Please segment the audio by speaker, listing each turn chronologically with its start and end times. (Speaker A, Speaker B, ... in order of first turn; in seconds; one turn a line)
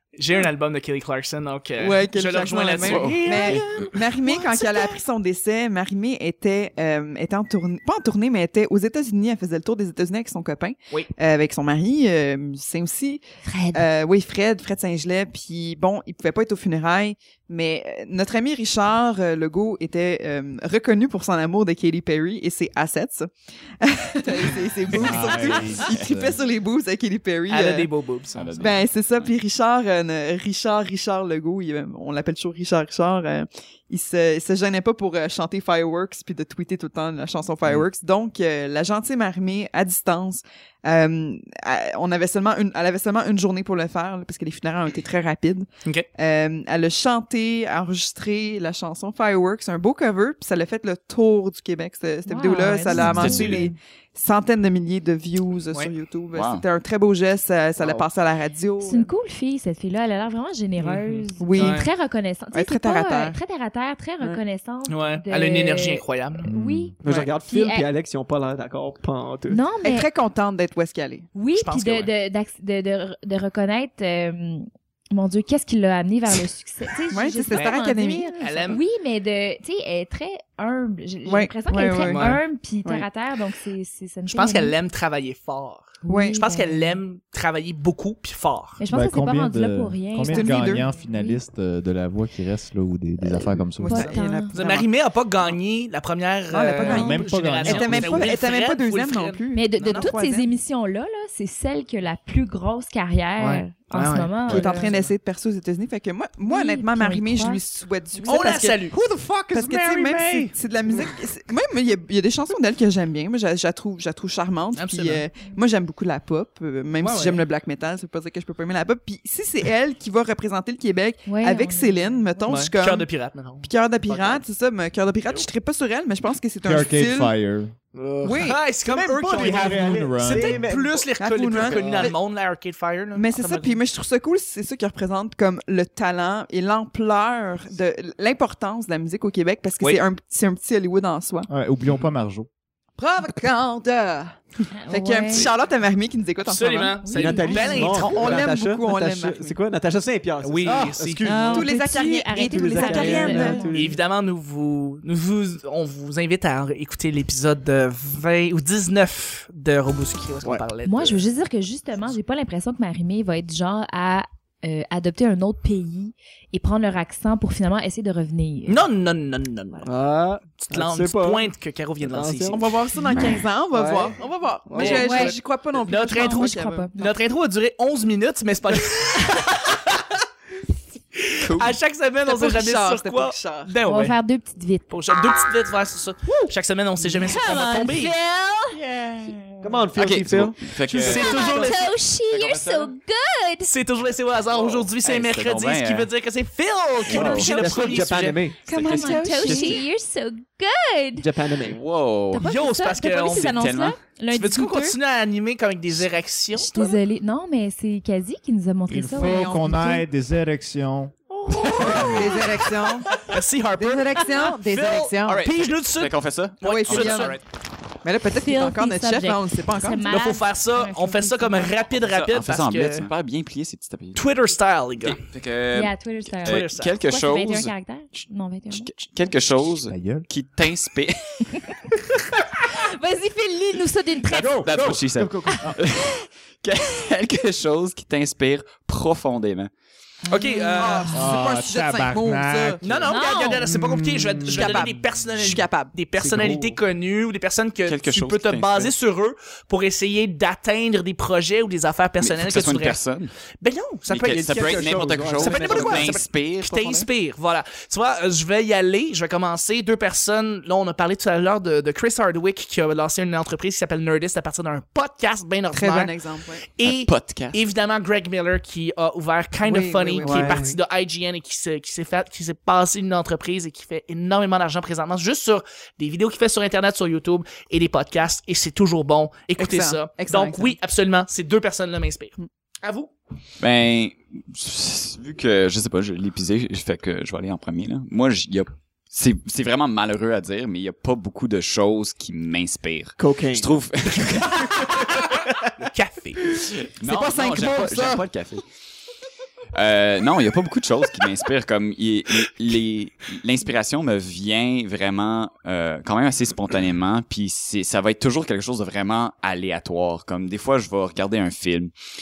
Speaker A: 0.1-4.9
Speaker B: 1.8-13.2
Speaker C: 2.8-3.6
Speaker D: 13.4-13.8
Speaker B: 13.7-27.9
Speaker E: 24.9-26.4
Speaker A: 27.5-28.4
Speaker C: 28.3-29.3
Speaker E: 28.4-28.6
Speaker B: 28.6-59.1
Speaker D: 52.2-53.6
Speaker C: 52.9-53.7
Speaker C: 56.3-56.6
Speaker D: 58.8-67.9
Speaker A: 60.8-61.9
Speaker B: 61.4-61.9
Speaker B: 62.5-63.4
Speaker A: 64.9-66.5
Speaker E: 66.5-66.9
Speaker F: 67.0-69.6
Speaker A: 67.0-67.3
Speaker D: 69.5-70.1
Speaker B: 69.8-71.3
Speaker D: 71.3-84.7
Speaker A: 71.5-72.1
Speaker B: 77.1-78.7
Speaker A: 78.4-78.8
Speaker B: 81.2-83.1
Speaker A: 82.0-82.4
Speaker A: 84.3-88.8
Speaker D: 86.0-87.0
Speaker B: 86.1-86.4
Speaker D: 88.8-91.4
Speaker E: 88.9-94.1
Speaker B: 90.3-90.9
Speaker D: 93.2-94.5
Speaker B: 93.8-94.9
Speaker A: 93.9-100.1
Speaker B: 96.5-100.5
Speaker E: 96.8-98.4
Speaker D: 99.5-104.9
Speaker A: 103.4-104.3
Speaker B: 104.5-108.9
Speaker D: 106.4-107.6
Speaker D: 108.2-108.5
Speaker A: 108.2-109.0
Speaker F: 108.9-110.5
Speaker E: 109.2-109.5
Speaker B: 109.5-123.1
Speaker A: 114.7-115.2
Speaker A: 117.0-117.4
Speaker D: 121.2-122.6
Speaker A: 122.5-124.4
Speaker B: 123.6-127.3
Speaker E: 126.6-127.7
Speaker F: 127.9-132.1
Speaker B: 128.2-128.6
Speaker A: 128.2-133.8
Speaker E: 129.3-130.7
Speaker B: 131.2-132.2
Speaker B: 133.1-141.5
Speaker E: 141.5-142.5
Speaker B: 143.0-149.6
Speaker D: 144.7-145.5
Speaker A: 146.4-148.4
Speaker D: 147.0-147.9
Speaker F: 147.1-151.7
Speaker A: 150.4-151.2
Speaker D: 151.2-153.7
Speaker B: 151.5-153.7
Speaker F: 152.4-154.0
Speaker A: 153.6-161.2
Speaker D: 160.8-168.8
Speaker A: 168.7-169.9
Speaker F: 169.8-171.5
Speaker A: 170.6-172.6
Speaker F: 172.0-172.7
Speaker B: 172.5-176.9
Speaker F: 173.7-174.2
Speaker F: 174.7-175.1
Speaker A: 174.7-179.8
Speaker D: 174.8-175.3
Speaker D: 176.0-177.1
Speaker A: 181.2-184.2
Speaker C: 181.4-181.8
Speaker B: 182.2-183.7
Speaker D: 183.8-184.9
Speaker A: 184.9-188.2
Speaker D: 187.0-189.4
Speaker F: 189.6-191.7
Speaker C: 189.9-192.9
Speaker A: 190.9-191.9
Speaker D: 191.0-193.7
Speaker A: 193.7-198.5
Speaker C: 194.5-196.1
Speaker C: 197.1-197.8
Speaker F: 197.1-198.6
Speaker D: 197.1-197.6
Speaker C: 198.7-199.8
Speaker D: 198.7-201.3
Speaker B: 198.7-199.8
Speaker F: 201.2-201.8
Speaker C: 201.7-202.4
Speaker D: 202.3-204.9
Speaker A: 202.4-203.6
Speaker C: 203.3-204.0
Speaker A: 204.3-206.7
Speaker D: 206.5-210.0
Speaker E: 208.9-212.4
Speaker B: 209.1-210.0
Speaker A: 211.7-212.2
Speaker B: 211.8-215.4
Speaker A: 213.1-217.4
Speaker C: 215.3-217.4
Speaker B: 216.6-217.4
Speaker B: 218.0-220.1
Speaker D: 218.4-221.8
Speaker A: 220.1-223.1
Speaker C: 222.1-224.2
Speaker A: 224.1-225.2
Speaker C: 225.0-231.6
Speaker D: 225.7-228.9
Speaker A: 226.4-226.9
Speaker E: 229.8-230.2
Speaker D: 232.6-234.6
Speaker E: 234.3-235.7
Speaker C: 234.6-239.7
Speaker D: 240.2-241.3
Speaker A: 240.3-241.1
Speaker B: 240.8-242.8
Speaker E: 241.1-242.9
Speaker A: 242.8-253.0
Speaker D: 243.0-243.7
Speaker E: 243.6-244.8
Speaker B: 244.4-246.0
Speaker F: 246.2-246.7
Speaker C: 247.8-248.9
Speaker C: 252.2-253.3
Speaker A: 253.6-266.2
Speaker C: 254.1-257.1
Speaker F: 254.2-256.2
Speaker B: 265.7-266.7
Speaker A: 266.8-283.1
Speaker C: 266.8-267.6
Speaker B: 269.6-270.7
Speaker F: 270.2-270.8
Speaker B: 279.6-280.7
Speaker C: 283.6-295.2
Speaker F: 293.2-293.7
Speaker A: 295.8-296.5
Speaker C: 296.9-298.6
Speaker B: 297.0-298.3
Speaker C: 299.7-311.9